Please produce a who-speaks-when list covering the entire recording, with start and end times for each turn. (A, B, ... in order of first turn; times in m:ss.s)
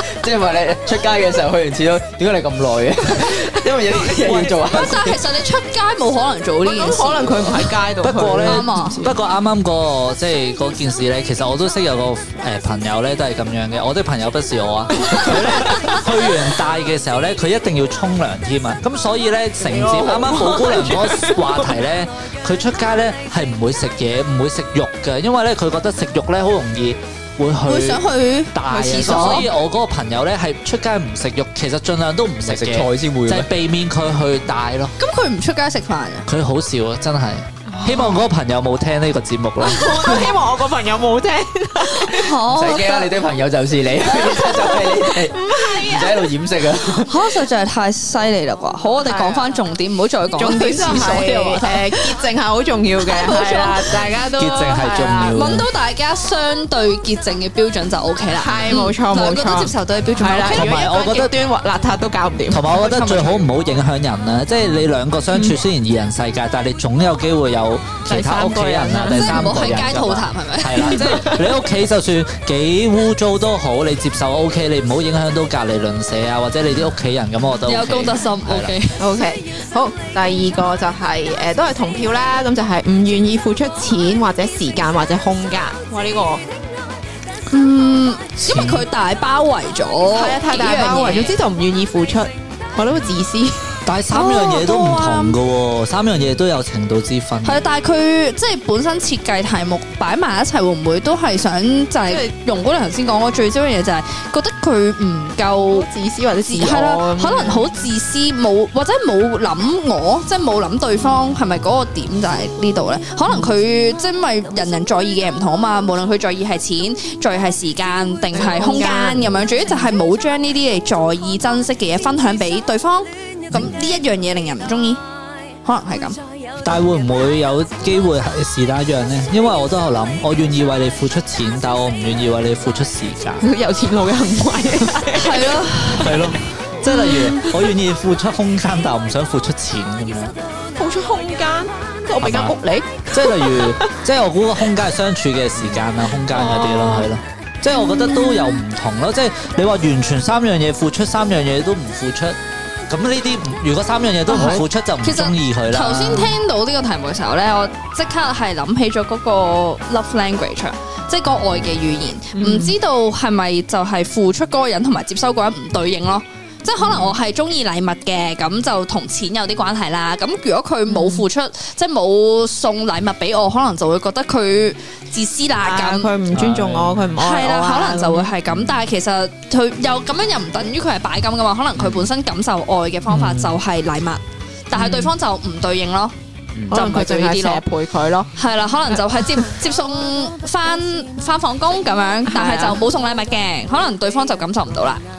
0:00.2-0:05.2 A
0:03.0-0:04.1 B
0:04.3-0:04.8 C
0:04.4-0:07.6 D
0:06.6-0:09.2 B
0:08.0-0:34.9 C
0:08.4-0:09.1 D
0:19.6-0:21.5 B
0:27.6-0:29.5 D
0:32.4-0:33.5 A
0:35.0-0:36.3 D
0:36.3-0:40.2 C
0:37.8-0:38.2 B
0:39.6-0:42.4 B
0:41.9-0:43.1 D
0:42.5-0:47.2 A
0:44.0-0:44.9 D
0:44.8-0:46.3 B
0:47.0-0:52.2 D
0:49.0-0:49.5 B
0:50.4-0:55.4 B
0:53.0-0:54.0 D
0:54.4-0:55.7 C
0:55.3-1:00.8 D
0:58.3-1:02.9 B
1:00.5-1:01.3 C
1:02.5-1:18.7 C
1:02.8-1:03.4 D
1:05.3-1:05.6 B
1:08.1-1:09.6 B
1:09.1-1:11.1 D
1:10.8-1:11.5 B
1:17.7-1:19.0 D
1:19.0-1:26.4 B
1:27.5-1:31.4 D
1:28.4-1:28.9 C
1:30.1-1:33.8 B
1:33.9-1:37.6 C
1:34.1-1:35.4 D
1:37.4-1:45.9 D
1:42.1-1:42.3 B
1:45.8-1:47.7 B
1:46.5-2:05.0 D
1:58.3-1:59.4 B
2:05.6-2:06.2 D
2:06.6-2:13.4 C
2:13.4-2:15.7 B
2:15.1-2:16.2 D
2:16.0-2:20.4 C
2:16.9-2:17.3 B
2:20.8-2:23.9 B
2:22.2-2:22.6 C
2:23.1-2:32.4 C
2:26.3-2:27.1 B
2:32.9-2:36.4 C
2:34.3-2:56.1 D
2:42.4-2:42.8 B
2:46.8-2:47.1 B
2:50.9-2:51.3 B
2:55.6-2:58.3 B
2:56.3-2:56.9 C
2:57.2-3:06.1 D
2:58.5-2:58.8 A
3:01.8-3:02.1 A
3:03.1-3:03.6 A
3:04.7-3:05.1 B
3:06.7-3:08.3 B
3:06.7-3:07.6 D
3:08.4-3:15.0 D
3:12.3-3:12.8 B